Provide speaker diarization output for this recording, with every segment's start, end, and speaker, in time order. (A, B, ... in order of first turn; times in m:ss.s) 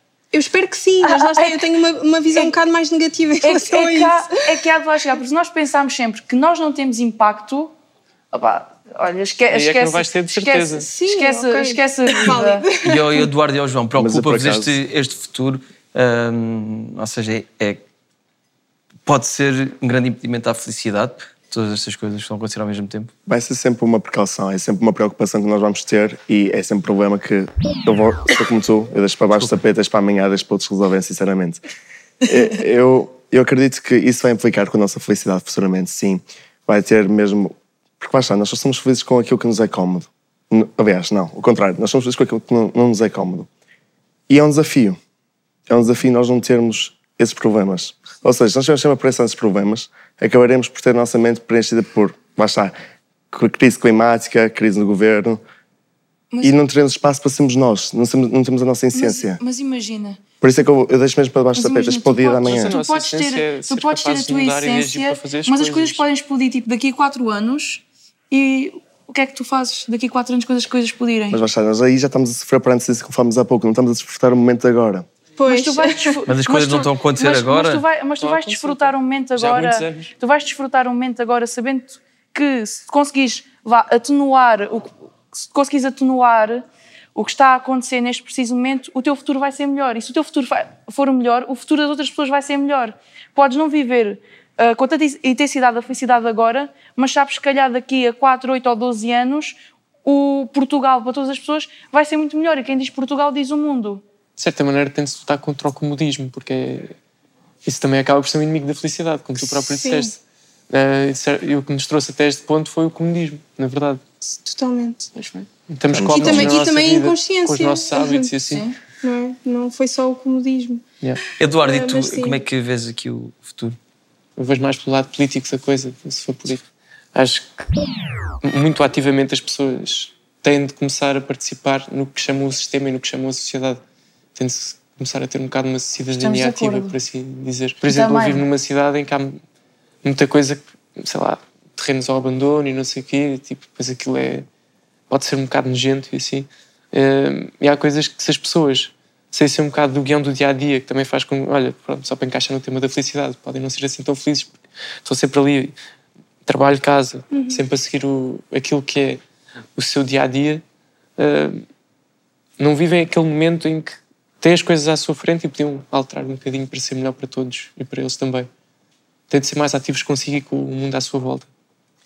0:00.3-0:04.2 A
0:01.0-0:01.6 B
0:03.4-0:07.7 B
0:08.3-0:12.6 B
0:09.5-0:10.9 C
0:10.8-0:13.3 A
0:12.8-0:17.8 D
0:14.0-0:14.8 E
0:19.1-0:23.1 D
0:23.3-0:31.6 E
0:32.2-0:43.5 E
0:44.3-0:45.0 E
0:45.7-0:52.7 E
0:53.3-0:55.4 E
0:56.4-0:59.4 E
0:58.9-1:00.2 B
1:00.4-1:02.7 E
1:01.6-1:11.4 B
1:02.4-1:06.1 C
1:11.3-1:15.1 E
1:15.4-1:16.2 A
1:15.5-1:44.0 B
1:16.3-1:17.8 D
1:18.2-1:20.1 C
1:44.4-1:47.0 C
1:47.6-1:50.2 C
1:49.4-1:50.1 A
1:50.7-1:54.0 C
1:54.2-1:55.1 A
1:55.2-1:58.7 C
1:55.9-1:56.5 E
1:56.0-1:58.3 A
1:58.5-1:58.8 B
1:59.0-2:00.8 A
2:01.4-2:03.8 D
2:01.6-2:02.4 A
2:04.4-2:07.6 C
2:08.4-2:13.8 C
2:14.4-2:19.4 C
2:16.1-2:17.0 B
2:17.9-2:18.5 B
2:20.0-2:24.5 C
2:25.1-2:34.5 C
2:35.0-2:35.8 C
2:36.5-2:39.2 C
2:37.3-2:37.6 A
2:39.8-2:40.6 C
2:41.2-2:41.6 C
2:42.6-2:48.5 C
2:49.3-2:51.5 C